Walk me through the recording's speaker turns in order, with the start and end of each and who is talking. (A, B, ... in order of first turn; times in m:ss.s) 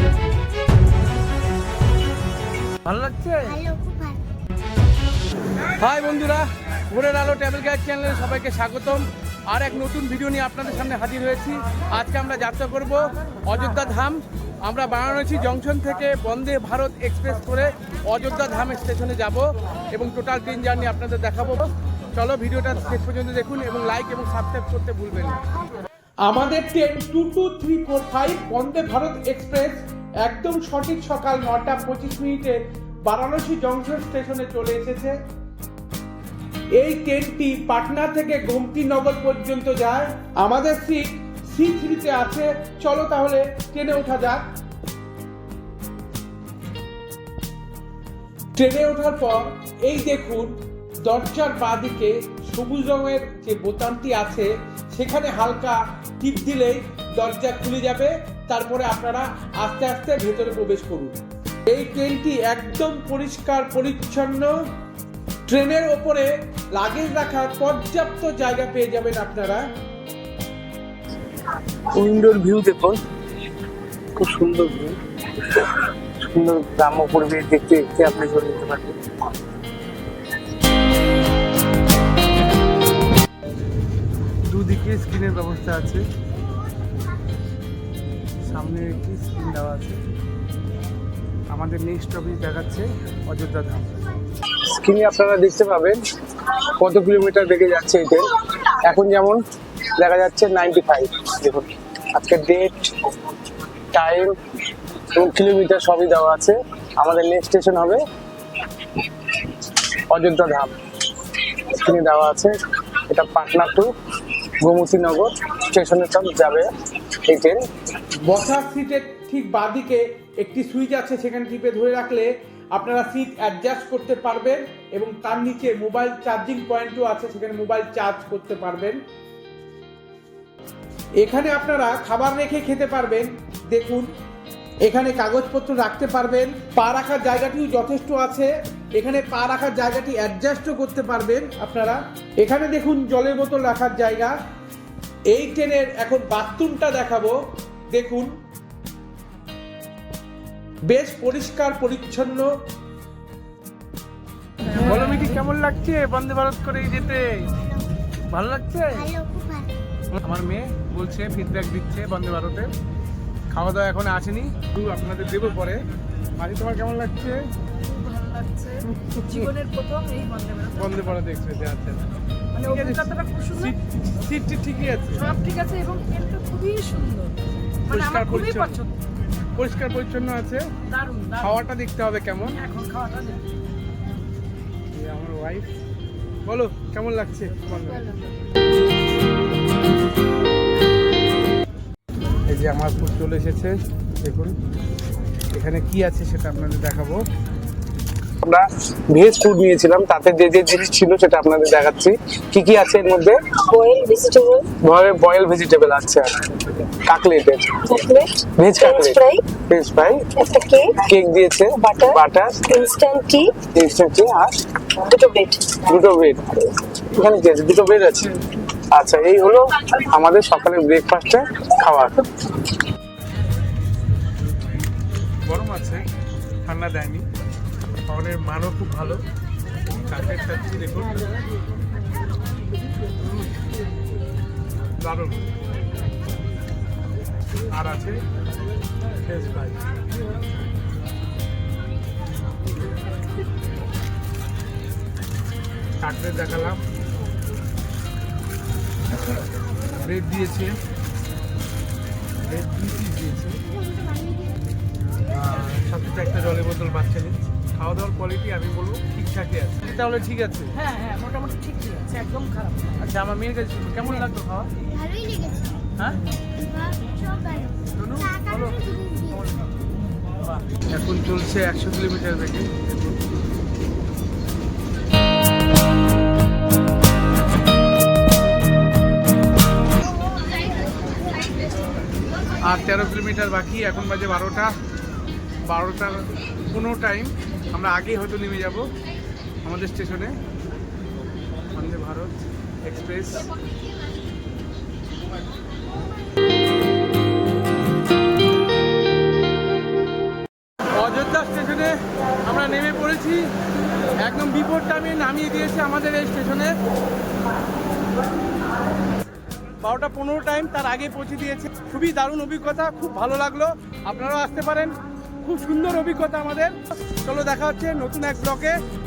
0:02.8-0:03.6 A
0:03.5-0:04.2 B
0:05.6-0:25.4 A
0:26.3-0:35.2 A
0:36.8-0:44.4 A
0:48.5-1:01.2 A
1:01.7-1:04.5 A
1:05.5-1:09.6 A
1:12.0-1:13.0 C
1:14.2-1:19.0 C
1:24.5-1:26.0 A
1:28.4-1:30.0 A
1:31.5-1:34.1 A
1:34.6-1:39.4 C
1:40.0-1:43.3 C
1:43.9-1:44.3 C
1:45.1-1:48.0 C
1:49.3-1:56.7 C
1:57.2-1:57.6 C
1:58.2-2:09.0 A
2:11.2-2:14.1 A
2:14.8-2:24.3 A
2:25.3-2:27.4 A
2:27.9-2:28.3 A
2:30.8-2:32.5 A
2:34.7-2:37.7 A
2:38.3-2:39.1 A
2:39.0-2:39.7 B
2:40.1-2:42.7 A
2:43.5-2:45.8 A
2:46.4-2:47.4 A
2:47.8-2:51.1 D
2:48.9-2:49.4 A
2:50.8-2:52.0 A
2:52.5-2:53.7 D
2:52.6-2:55.3 A
2:55.1-2:58.9 D
2:57.9-2:58.8 A
2:59.6-3:00.7 A
3:00.8-3:01.6 D
3:01.4-3:02.6 A
3:02.5-3:03.5 D
3:04.9-3:05.7 A
3:06.4-3:08.2 A
3:12.5-3:14.6 A
3:15.5-3:17.2 A
3:18.4-3:23.6 C
3:23.7-3:24.7 E
3:24.8-3:30.3 C
3:27.8-3:29.4 E
3:30.3-3:31.0 E
3:31.0-3:32.9 C
3:31.8-3:32.2 E
3:32.7-3:33.6 E
3:33.6-3:34.6 C
3:35.0-3:36.0 E
3:35.8-3:42.7 C
3:45.4-3:46.0 A
3:46.6-3:47.2 A
3:48.1-3:49.2 A
3:49.9-3:51.3 A
3:53.2-3:53.5 A
3:55.0-3:55.6 A
3:57.7-3:58.2 A
3:59.2-3:59.8 A
4:06.0-4:06.8 A
4:09.9-4:10.7 A
4:12.4-4:13.6 A
4:13.8-4:14.5 B
4:15.3-4:20.7 A
4:20.7-4:23.1 D
4:23.0-4:24.8 A
4:24.0-4:24.3 D
4:24.9-4:25.8 B
4:26.6-4:29.4 B
4:27.9-4:28.8 A
4:30.9-4:33.4 A
4:42.6-4:44.7 A
4:45.7-4:48.9 A
4:49.6-4:50.4 A
4:51.7-4:53.5 A
5:00.9-5:03.5 A
5:04.2-5:06.7 A
5:09.8-5:18.8 A